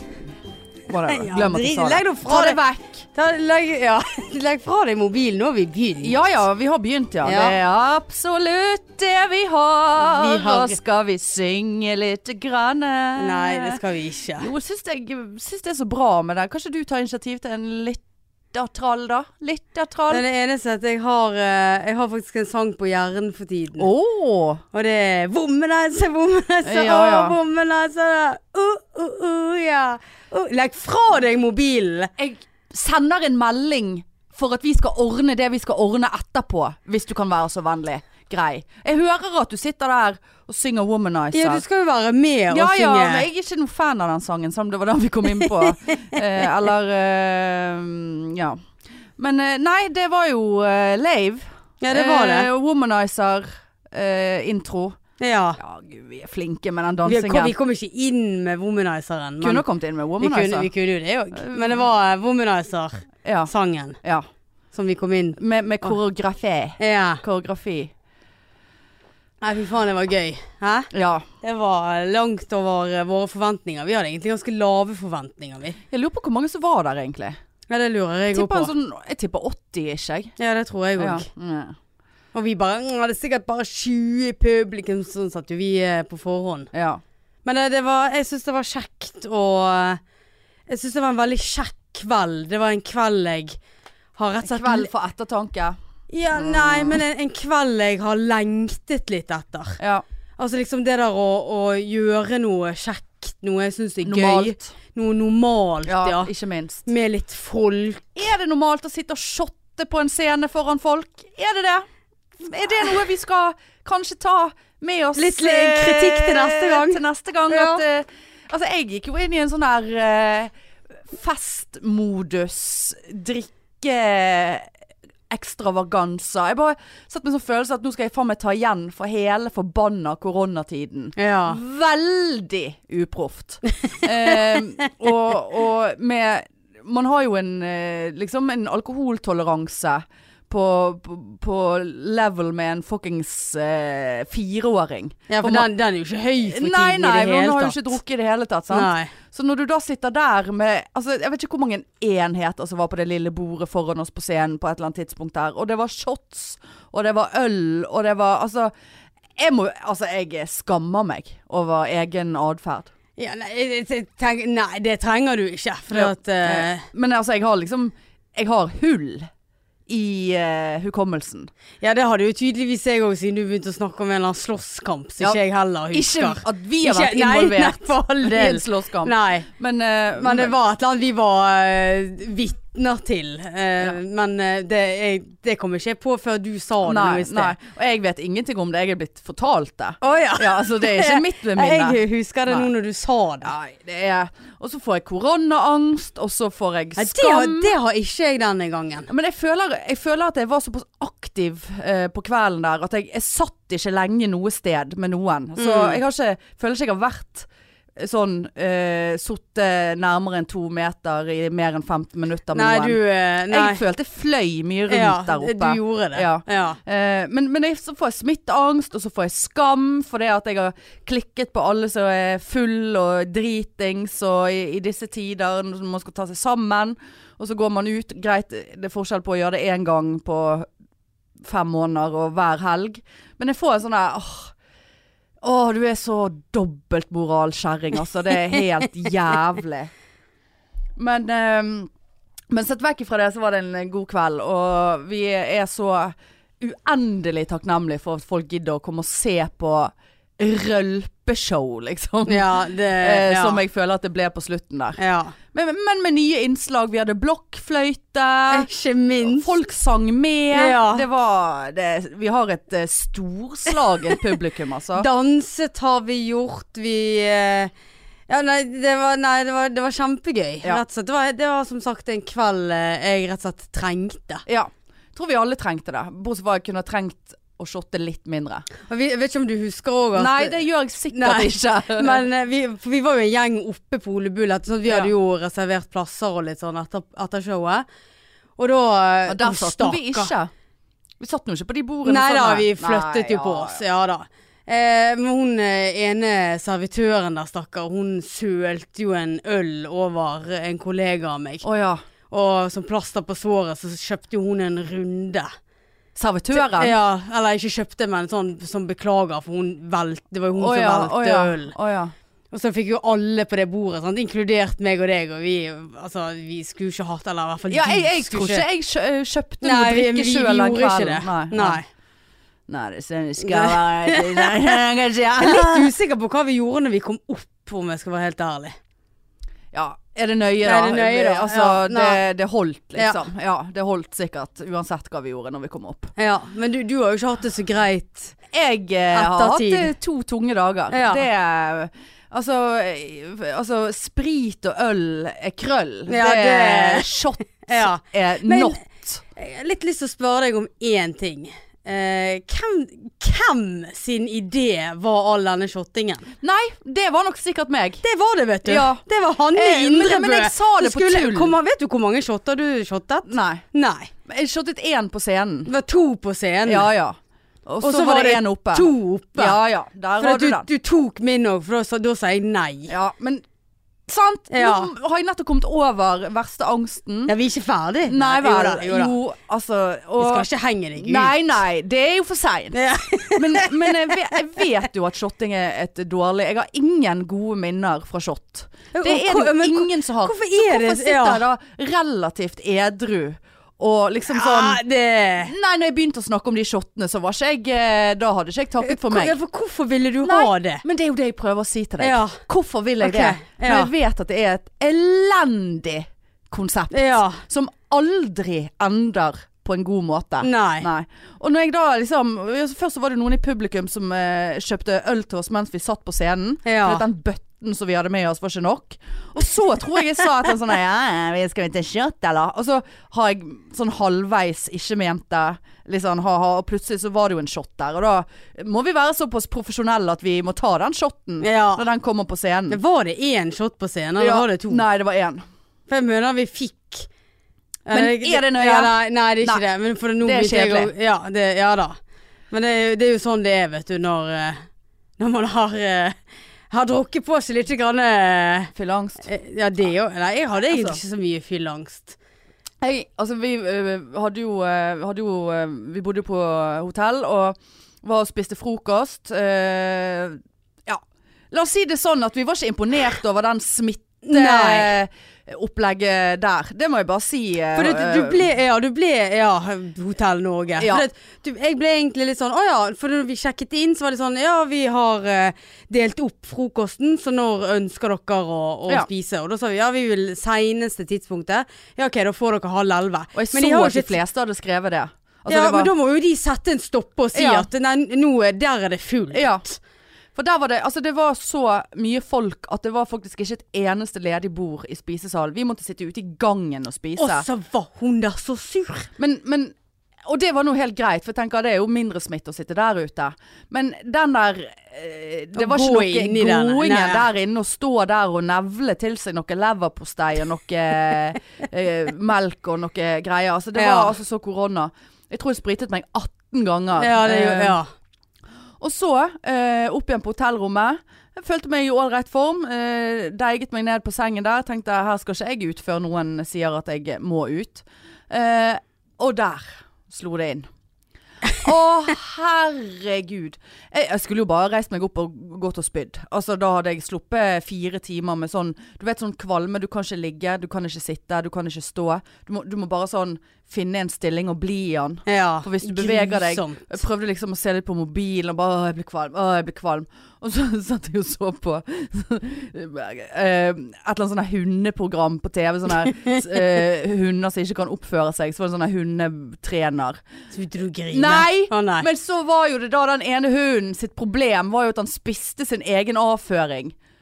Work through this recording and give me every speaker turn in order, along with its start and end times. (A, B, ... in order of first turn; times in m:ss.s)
0:00.9-0:03.1 A
0:01.0-0:02.6 B
0:03.1-0:06.2 B
0:06.0-0:13.8 A
0:07.2-0:07.6 B
0:10.0-0:10.8 B
0:13.2-0:14.5 B
0:14.4-0:20.2 A
0:20.1-0:23.9 B
0:23.8-0:24.6 A
0:24.7-0:32.1 B
0:26.6-0:27.4 A
0:32.2-0:41.6 A
0:41.3-0:43.3 B
0:42.5-0:48.6 A
0:45.4-0:46.0 B
0:49.2-0:55.0 A
0:51.8-0:52.5 B
0:55.2-0:55.6 B
0:55.6-0:57.5 A
0:57.0-0:59.6 B
0:59.4-1:00.7 A
1:00.2-1:04.0 B
1:01.4-1:01.8 A
1:03.2-1:03.5 A
1:04.7-1:05.9 B
1:05.4-1:07.9 A
1:06.8-1:07.2 B
1:09.4-1:10.9 B
1:10.9-1:11.3 A
1:11.4-1:15.8 B
1:15.9-1:17.4 A
1:17.7-1:18.7 B
1:18.3-1:20.4 A
1:20.4-1:21.3 B
1:21.0-1:21.8 A
1:22.3-1:26.7 B
1:26.7-1:27.0 A
1:27.4-1:30.0 B
1:30.7-1:33.6 B
1:34.2-1:34.9 B
1:34.4-1:35.8 A
1:36.1-1:39.8 B
1:36.4-1:37.0 A
1:39.8-1:40.0 A
1:40.4-1:46.3 B
1:44.0-1:44.8 A
1:45.9-1:46.9 A
1:46.9-1:48.2 B
1:48.2-1:51.9 A
1:52.4-2:00.5 A
1:55.2-1:57.8 B
2:01.0-2:04.7 A
2:05.3-2:25.7 A
2:11.2-2:11.6 B
2:25.3-2:28.0 B
2:26.4-2:38.7 A
2:28.7-2:29.1 B
2:39.4-2:42.9 A
2:43.2-2:46.9 B
2:45.9-2:49.3 A
2:49.9-2:51.5 A
2:51.8-2:59.5 B
2:55.9-3:00.6 A
3:00.2-3:07.6 B
3:06.8-3:12.7 A
3:10.0-3:13.6 B
3:13.4-3:17.7 A
3:17.0-3:19.1 B
3:19.1-3:50.7 A
3:25.6-3:26.0 B
3:32.5-3:33.8 B
3:34.9-3:36.8 B
3:51.4-3:54.5 A
3:55.4-3:59.9 A
4:01.0-4:01.9 A
4:02.5-4:15.0 A
4:12.3-4:13.6 B
4:15.0-4:15.4 B
4:15.5-4:18.7 A
4:18.5-4:19.6 B
4:19.2-4:25.1 A
4:20.5-4:21.0 B
4:25.0-4:27.7 B
4:28.3-4:34.4 B
4:34.5-4:38.7 A
4:38.9-4:40.6 B
4:40.2-4:42.2 A
4:41.1-4:47.9 B
4:48.6-4:50.3 B
4:49.3-4:50.5 A
4:51.2-4:53.8 A
4:52.0-5:01.6 B
5:01.6-5:02.0 A
5:02.3-5:05.5 B
5:06.2-5:07.0 A
5:06.5-5:11.8 B
5:10.6-5:12.1 A
5:12.5-5:18.6 B
5:17.7-5:21.8 A
5:19.6-5:21.9 B
5:22.7-5:25.9 A
5:23.4-5:24.8 B
5:25.4-5:28.8 B
5:29.7-5:36.1 A
5:30.6-5:32.2 B
5:33.0-5:33.2 B
5:36.2-5:38.4 B
5:38.5-5:49.2 A
5:39.1-5:39.9 B
5:40.9-5:41.3 B
5:46.1-5:48.8 B
5:49.4-5:56.3 B
5:56.4-5:58.0 A
5:58.0-6:04.1 B
5:58.6-6:01.6 A
6:03.3-6:03.6 A
6:04.3-6:05.7 A
6:05.6-6:06.9 B
6:06.7-6:10.7 A
6:07.8-6:09.6 B
6:10.2-6:12.9 B
6:12.9-6:13.4 A
6:14.1-6:17.3 A
6:14.5-6:14.9 B
6:17.3-6:19.2 B
6:18.0-6:20.5 A
6:20.2-6:21.3 B
6:21.0-6:22.8 A
6:22.7-6:24.2 B
6:23.3-6:34.8 A
6:28.9-6:31.4 B
6:34.3-6:35.5 B
6:35.5-6:39.4 A
6:38.8-6:40.8 B
6:40.2-7:12.8 A
6:42.0-6:42.4 B
6:43.0-6:43.9 B
6:46.9-6:47.4 B
6:50.4-6:50.9 B
6:56.6-6:57.0 B
7:11.4-7:11.9 B
7:12.7-7:14.8 B
7:14.2-7:15.4 A
7:15.9-7:17.1 B
7:17.9-7:22.0 B
7:17.9-7:19.6 A
7:20.2-7:20.9 A
7:22.5-7:24.7 B
7:25.2-7:26.2 B
7:26.7-7:28.7 B
7:28.8-7:29.3 A
7:29.2-7:32.2 B
7:30.7-7:31.0 A
7:32.8-7:48.4 A
7:44.2-7:45.0 B
7:47.7-8:04.2 B
7:50.8-7:51.1 A
8:03.3-8:05.9 A
8:05.5-8:09.8 B
8:07.3-8:07.7 A
8:09.3-8:09.6 A
8:10.4-8:17.5 A
8:17.2-8:19.1 B
8:19.2-8:19.8 A
8:20.3-8:37.8 A
8:25.6-8:27.3 B
8:33.8-8:34.2 B
8:37.0-8:37.9 B
8:38.8-8:50.7 A
8:51.6-9:20.2 A
9:05.3-9:06.9 B
9:20.5-9:22.1 B
9:21.1-9:27.0 A